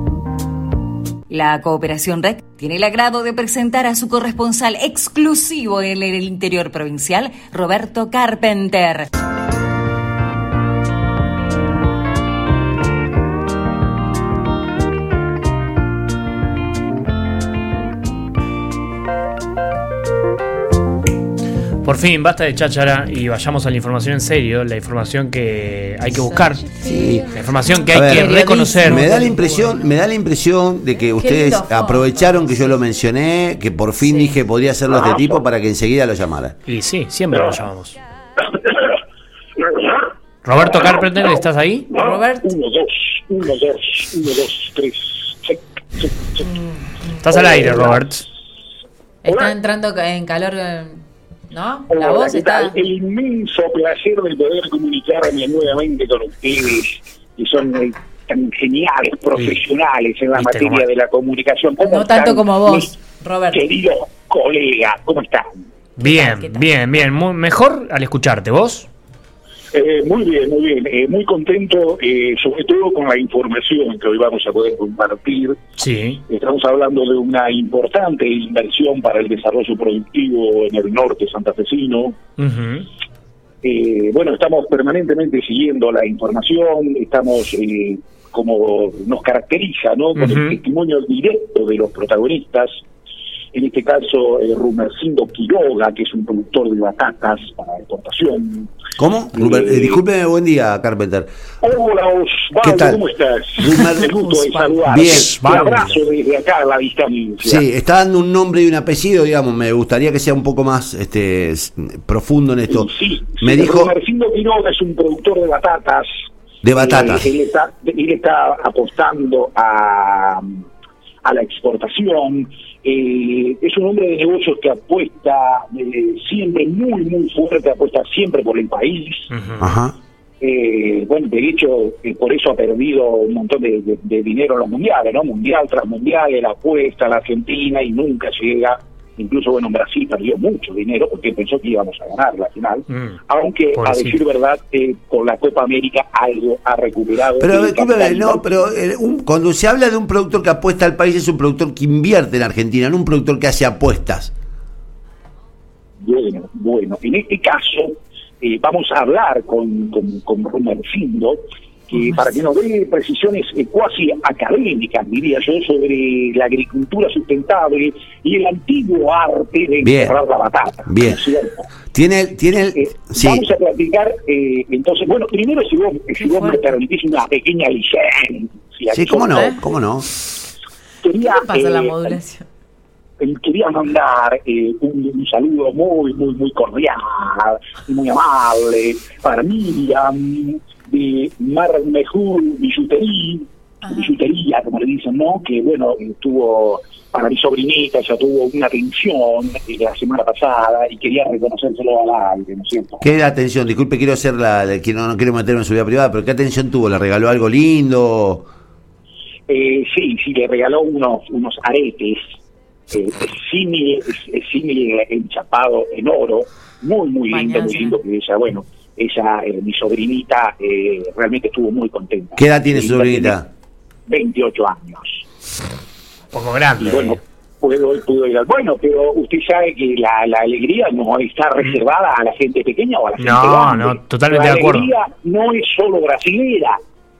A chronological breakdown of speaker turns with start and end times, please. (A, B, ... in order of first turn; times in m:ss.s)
0:01.3-0:09.1 A
0:21.8-0:29.1 B
0:26.1-0:26.5 C
0:26.8-0:27.3 D
0:27.9-0:36.5 D
0:28.0-0:29.8 C
0:31.2-0:32.7 C
0:34.0-0:34.4 C
0:35.0-0:35.4 E
0:36.7-0:38.0 B
0:40.4-0:41.9 B
0:41.9-0:46.5 E
0:41.9-0:42.5 C
0:46.5-0:47.0 C
0:47.2-0:48.2 B
0:47.2-0:48.0 E
0:49.2-0:52.8 C
0:49.3-0:49.5 E
0:51.9-1:03.0 E
1:00.3-1:00.8 B
1:01.8-1:03.7 C
1:03.5-1:05.6 E
1:06.0-1:08.9 B
1:06.0-1:06.7 C
1:09.7-1:15.6 E
1:15.8-1:16.2 B
1:16.3-1:22.2 E
1:22.4-1:22.9 B
1:23.6-1:32.8 E
1:30.2-1:30.5 B
1:33.5-1:38.7 E
1:39.0-1:41.3 D
1:39.3-1:40.0 E
1:41.6-1:47.6 E
1:42.6-1:43.0 D
1:43.6-1:44.2 D
1:44.4-1:44.7 C
1:44.8-1:45.4 D
1:44.9-1:46.0 B
1:47.4-1:52.9 D
1:52.7-1:56.1 E
1:53.4-1:53.9 D
1:56.6-1:57.3 D
1:56.7-2:00.6 E
2:01.2-2:09.3 E
2:09.3-2:09.7 B
2:09.6-2:10.0 D
2:10.4-2:28.7 E
2:22.9-2:23.2 B
2:23.8-2:24.2 B
2:27.4-2:34.3 D
2:36.0-2:51.7 E
2:49.8-2:50.2 D
2:50.8-2:51.2 D
2:51.9-2:53.4 D
2:52.7-2:59.6 E
2:56.2-2:56.8 C
2:58.9-3:00.1 D
2:59.3-2:59.6 C
3:01.0-3:02.2 E
3:01.2-3:02.4 C
3:03.2-3:23.0 E
3:13.8-3:14.1 C
3:23.0-3:28.4 D
3:29.5-3:32.2 E
3:32.9-3:43.4 E
3:37.3-3:38.0 C
3:42.4-3:43.5 D
3:44.1-3:45.2 E
3:46.3-3:47.2 B
3:46.8-3:56.8 E
3:53.2-3:54.9 B